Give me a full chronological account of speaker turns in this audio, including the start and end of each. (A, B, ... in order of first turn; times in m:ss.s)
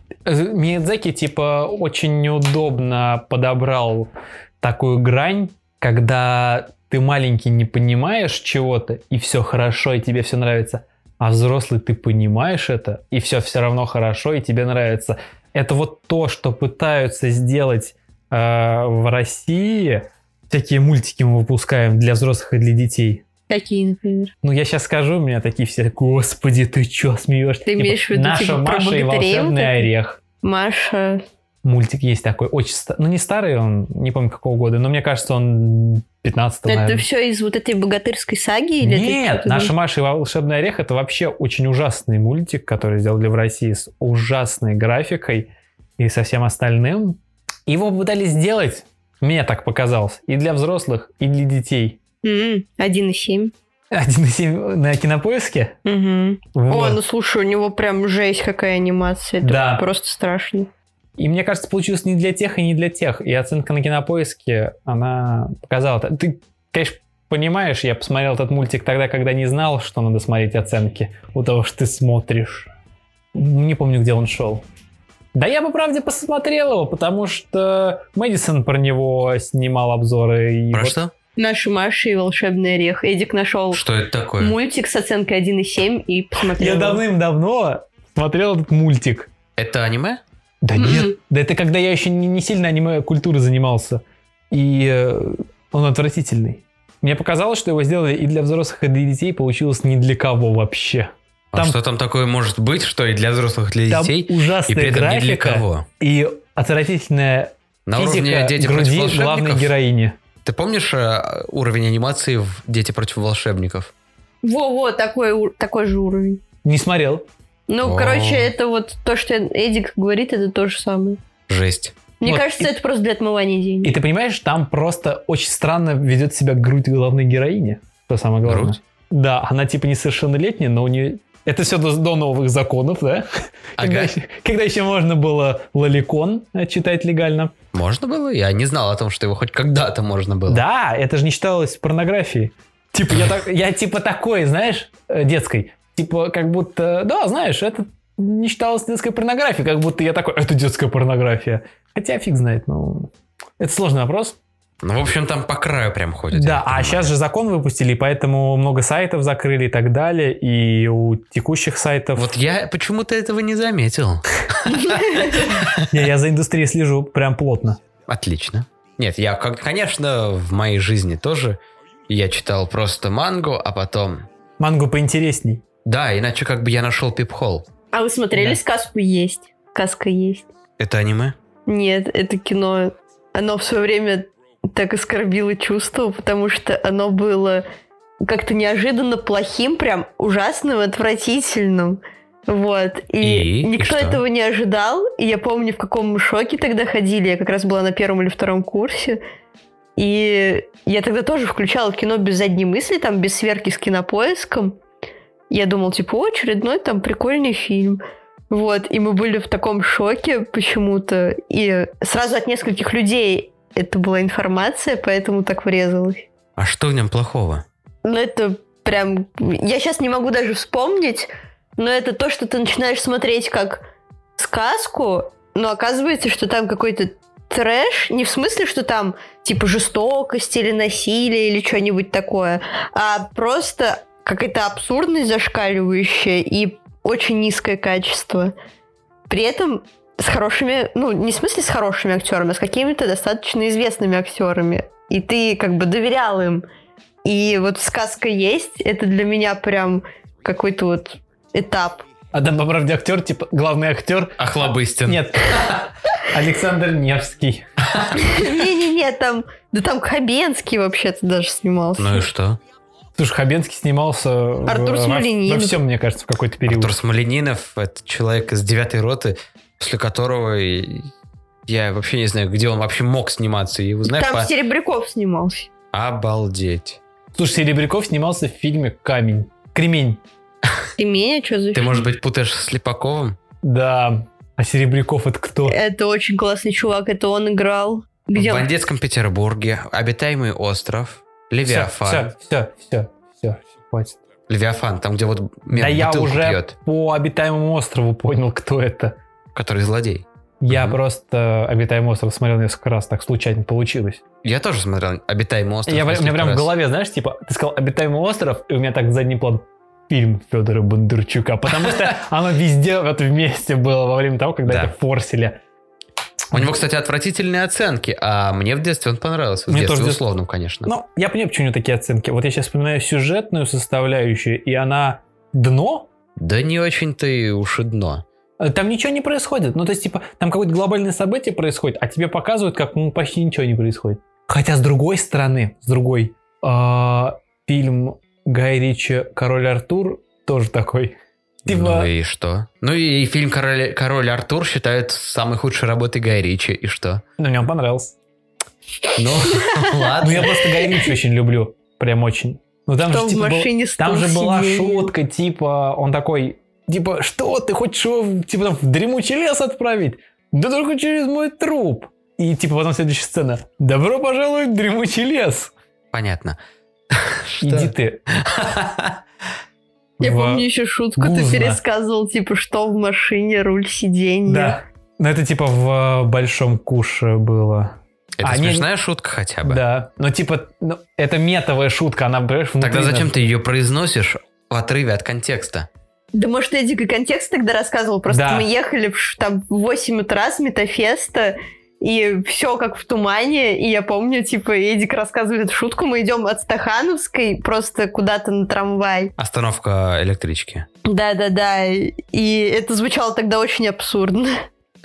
0:00.2-0:23.2 A
0:23.5-0:24.3 B
0:24.4-0:30.2 A
0:27.6-0:29.9 B
0:30.4-0:31.2 B
0:31.6-0:37.0 A
0:36.7-0:39.7 B
0:38.8-0:52.0 A
0:52.2-0:53.5 B
0:53.9-0:55.8 A
0:55.8-1:00.7 B
0:56.5-0:57.0 A
0:59.4-0:59.8 A
1:01.2-1:12.7 A
1:13.3-1:14.6 A
1:15.3-1:21.0 A
1:20.7-1:21.1 C
1:21.4-1:23.8 B
1:23.7-1:24.6 C
1:24.4-1:27.0 B
1:26.5-1:29.3 A
1:29.6-1:30.2 C
1:30.6-1:41.8 A
1:30.8-1:31.1 B
1:41.5-1:45.9 C
1:43.9-1:50.2 A
1:47.8-1:49.7 C
1:50.4-1:53.9 C
1:54.4-1:56.4 B
1:56.6-1:57.3 A
1:57.7-2:01.2 B
1:57.8-1:58.5 C
2:01.5-2:02.0 C
2:02.2-2:04.0 B
2:02.2-2:02.7 A
2:03.8-2:17.5 A
2:08.4-2:08.8 C
2:13.8-2:14.1 C
2:17.7-2:20.6 C
2:20.5-2:34.4 A
2:34.8-2:37.1 C
2:36.3-2:42.3 A
2:42.2-2:45.9 C
2:45.9-2:47.8 A
2:48.1-2:54.2 C
2:54.6-2:55.6 A
2:55.8-2:57.7 C
2:57.9-3:00.5 B
3:00.8-3:01.4 C
3:01.7-3:07.6 B
3:08.2-3:19.2 B
3:13.2-3:14.2 C
3:20.0-3:24.8 B
3:25.5-3:36.3 B
3:36.6-3:37.6 C
3:38.0-3:43.8 B
3:44.4-3:58.5 B
3:59.3-4:06.6 B
4:07.2-4:12.0 B
4:12.3-4:14.5 A
4:14.4-4:15.8 C
4:15.0-4:15.8 A
4:16.3-4:17.6 A
4:17.8-4:18.5 C
4:18.2-4:22.2 B
4:22.0-4:22.6 C
4:23.2-4:26.9 A
4:24.6-4:25.8 B
4:26.6-4:31.1 C
4:31.6-4:34.5 C
4:34.0-4:35.7 B
4:35.9-4:37.0 C
4:37.3-4:40.2 A
4:41.0-4:42.0 B
4:41.7-4:43.4 C
4:43.6-4:45.7 A
4:45.6-4:48.7 B
4:48.3-4:52.3 C
4:51.6-4:54.2 A
4:54.5-4:56.7 C
4:55.7-4:59.2 A
4:59.5-5:01.0 C
5:00.6-5:04.2 A
5:04.4-5:06.7 C
5:05.9-5:15.6 A
5:11.8-5:12.1 C
5:14.6-5:14.9 C
5:16.5-5:20.9 C
5:19.7-5:20.2 A
5:20.8-5:26.1 A
5:26.4-5:28.2 C
5:28.6-5:42.1 A
5:41.6-5:47.2 C
5:47.4-5:48.2 A
5:49.2-5:50.6 C
5:49.5-5:50.1 B
5:50.2-6:05.7 A
5:53.0-5:55.1 B
6:06.1-6:06.6 C
6:07.1-6:09.2 C
6:07.6-6:08.2 A
6:10.2-6:11.8 A
6:10.2-6:14.8 B
6:14.5-6:18.9 A
6:18.4-6:19.8 C
6:19.6-6:23.5 A
6:22.8-6:25.9 C
6:26.3-6:39.3 B
6:28.3-6:28.7 A
6:39.4-6:40.9 C
6:41.0-6:44.6 B